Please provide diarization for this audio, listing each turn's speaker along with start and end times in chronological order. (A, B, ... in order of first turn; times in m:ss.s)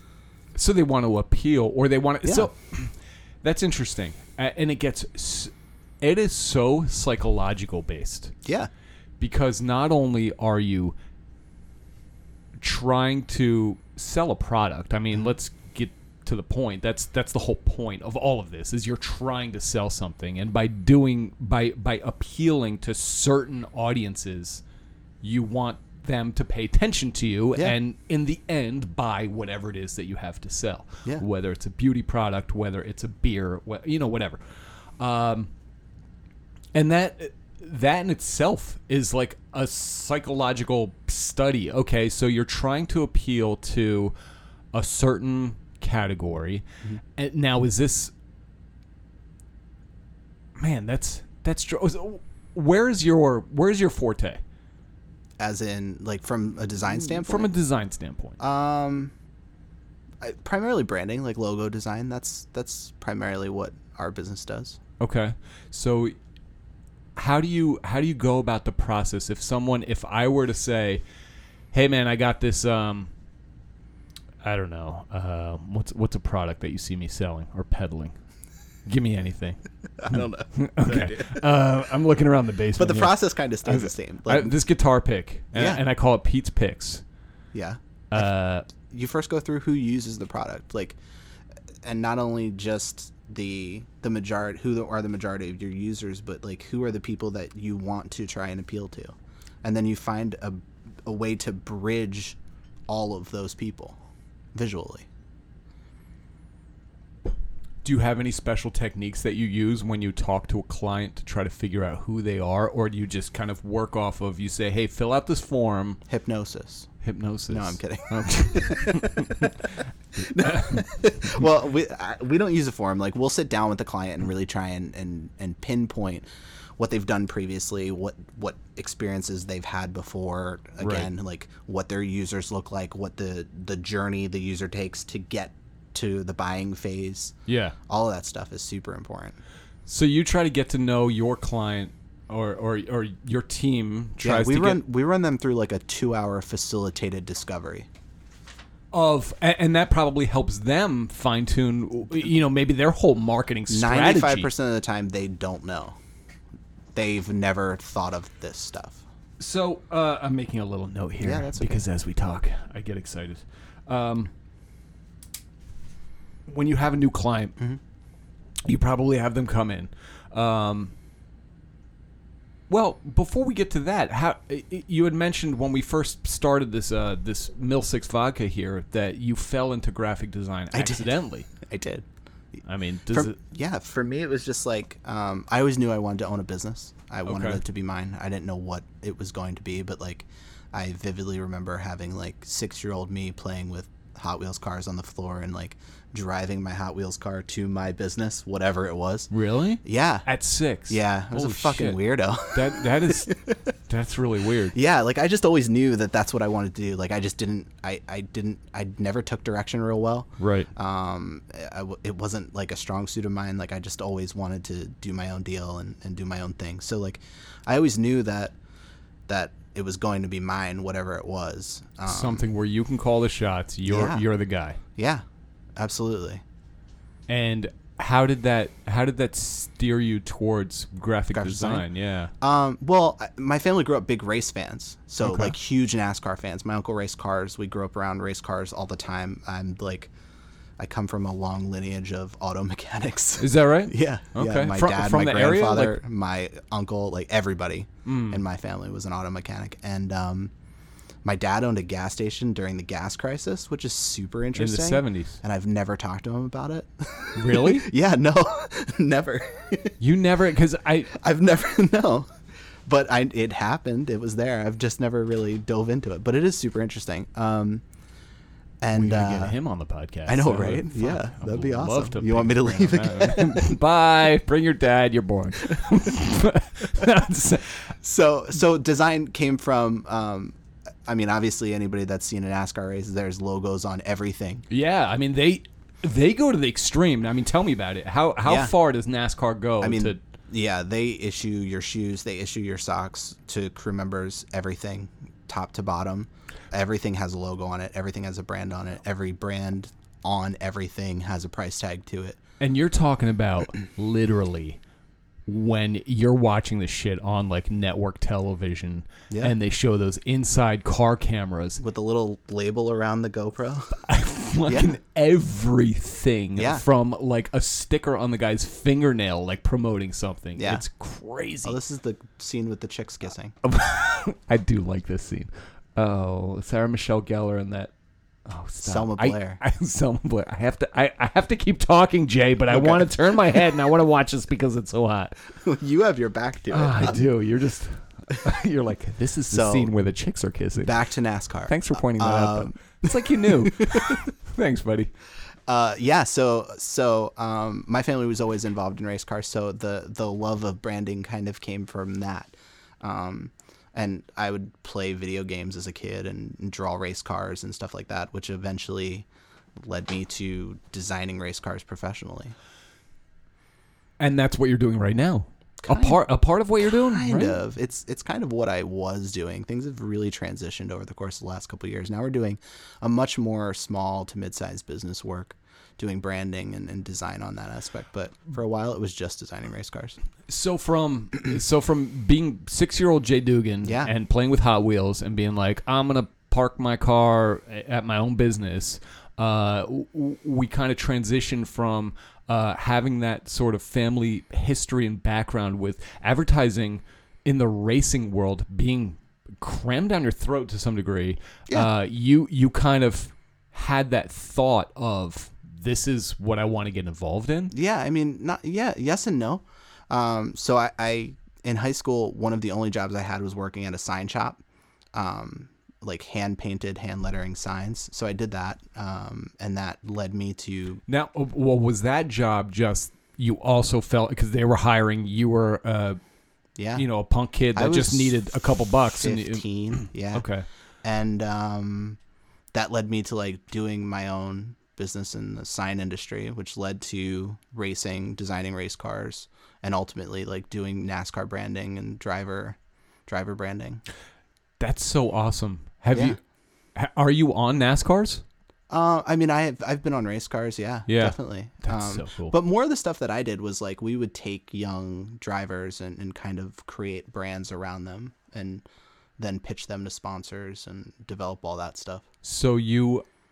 0:00.6-0:08.3 A
0:08.4-0:08.7 B
0:09.2-0:11.0 A
0:12.6-0:24.6 A
0:25.2-0:34.4 A
0:35.0-0:35.5 A
0:36.7-0:44.1 A
0:44.7-0:46.6 A
0:47.2-0:48.1 A
0:50.6-0:54.4 A
0:55.4-0:57.5 B
0:56.9-0:58.4 A
0:58.4-0:59.1 B
1:00.2-1:04.8 B
1:05.0-1:06.2 A
1:07.2-1:11.0 A
1:11.7-1:13.1 A
1:14.4-1:18.1 A
1:18.9-1:27.0 A
1:20.0-1:21.4 B
1:22.8-1:24.6 B
1:25.5-1:25.8 B
1:27.5-1:28.2 B
1:28.1-1:28.7 A
1:28.9-1:31.0 B
1:31.8-1:44.0 B
1:44.5-1:45.1 B
1:47.8-1:56.0 A
1:56.1-1:56.9 B
1:57.0-1:59.6 A
1:57.5-1:59.5 B
2:00.2-2:06.3 B
2:00.2-2:00.9 A
2:06.8-2:17.3 B
2:10.8-2:11.1 A
2:17.5-2:17.8 A
2:17.9-2:19.4 B
2:19.9-2:24.8 A
2:24.2-2:27.9 B
2:28.9-2:34.5 A
2:33.7-2:36.0 B
2:36.9-2:39.0 B
2:39.4-2:44.3 A
2:41.2-2:41.8 B
2:46.5-2:47.6 A
2:48.6-2:50.9 A
2:52.7-3:01.5 A
3:00.7-3:02.1 B
3:02.6-3:03.4 A
3:03.1-3:19.3 B
3:07.2-3:07.6 A
3:19.3-3:24.8 A
3:19.8-3:20.3 B
3:20.9-3:23.5 B
3:24.7-3:38.6 B
3:30.4-3:30.7 A
3:39.3-3:42.4 B
3:42.1-3:44.8 A
3:43.9-3:44.3 B
3:45.0-3:45.2 B
3:45.8-3:46.4 B
3:47.3-3:52.3 A
3:51.3-3:51.9 B
3:52.4-4:00.1 B
3:55.2-3:55.5 A
4:00.8-4:10.5 B
4:03.4-4:06.0 A
4:08.1-4:08.4 A
4:11.2-4:19.9 B
4:14.6-4:15.4 A
4:17.4-4:17.9 A
4:20.0-4:21.1 A
4:21.1-4:22.3 B
4:22.9-4:27.8 B
4:28.8-4:29.6 B
4:28.9-4:37.9 A
4:30.3-4:33.8 B
4:38.0-4:44.6 B
4:44.7-4:50.2 A
4:48.4-4:48.7 B
4:49.8-5:02.4 B
5:02.6-5:04.8 A
5:05.5-5:11.8 A
5:09.3-5:09.6 B
5:11.8-5:14.0 B
5:14.0-5:21.8 A
5:14.7-5:15.0 B
5:16.6-5:16.8 B
5:20.6-5:20.8 B
5:21.6-5:23.5 B
5:23.6-5:27.9 A
5:28.5-5:35.4 A
5:28.8-5:29.6 B
5:32.7-5:33.0 B
5:35.5-5:37.2 B
5:36.7-5:40.9 A
5:39.5-5:39.9 B
5:40.8-5:44.2 B
5:41.7-5:45.1 A
5:45.7-5:59.3 B
5:59.8-6:02.6 B
6:04.2-6:07.6 A
6:05.8-6:06.2 B
6:06.8-6:20.2 B
6:20.5-6:47.7 A
6:23.8-6:24.1 B
6:47.7-6:54.6 B
6:55.1-7:01.0 B
7:01.1-7:06.2 A
7:06.8-7:07.1 B
7:07.0-7:10.6 A
7:07.8-7:08.4 B
7:09.2-7:10.4 B
7:11.0-7:12.2 B
7:12.7-7:24.0 B
7:24.8-7:26.4 A
7:26.1-7:26.4 B
7:27.0-7:28.4 A
7:28.9-7:38.8 B
7:31.1-7:32.5 A
7:39.4-7:42.2 B
7:42.4-7:43.2 A